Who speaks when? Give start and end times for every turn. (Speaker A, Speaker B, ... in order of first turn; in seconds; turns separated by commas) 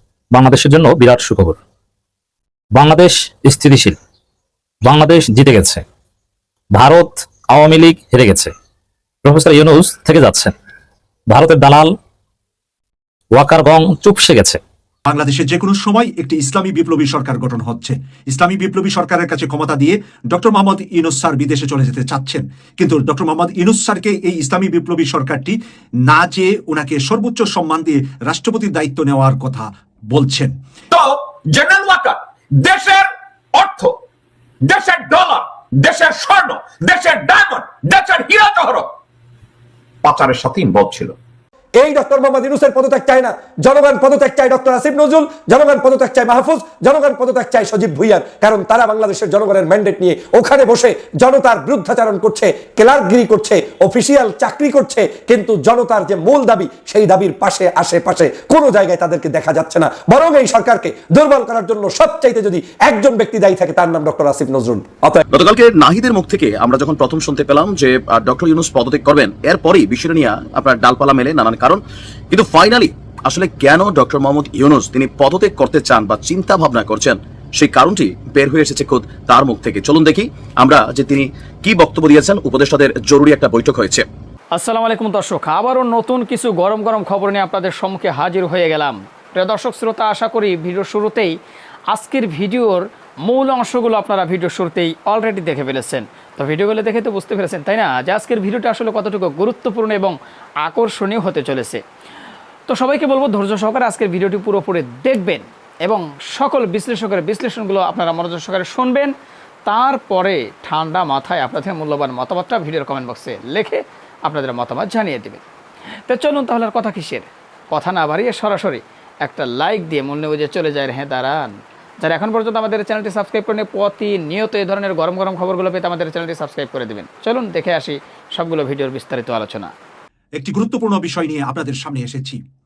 Speaker A: 0.3-1.6, Speaker A: 2.7-4.0, Speaker A: 4.8-5.8, Speaker A: 6.7-8.5, Speaker A: 9.2-10.5, Speaker A: 11.3-11.9, Speaker A: 13.3-14.6, Speaker B: 15.1-30.6, Speaker C: 30.9-34.0, Speaker C: 34.6-38.9, Speaker C: 40.0-41.1, Speaker D: 41.8-65.2, Speaker E: 65.3-84.0, Speaker F: 84.5-91.4, Speaker F: 91.9-101.8, Speaker F: 102.7-109.1, Speaker F: 109.7-115.4, Speaker F: 116.1-129.7, Speaker B: 130.4-132.4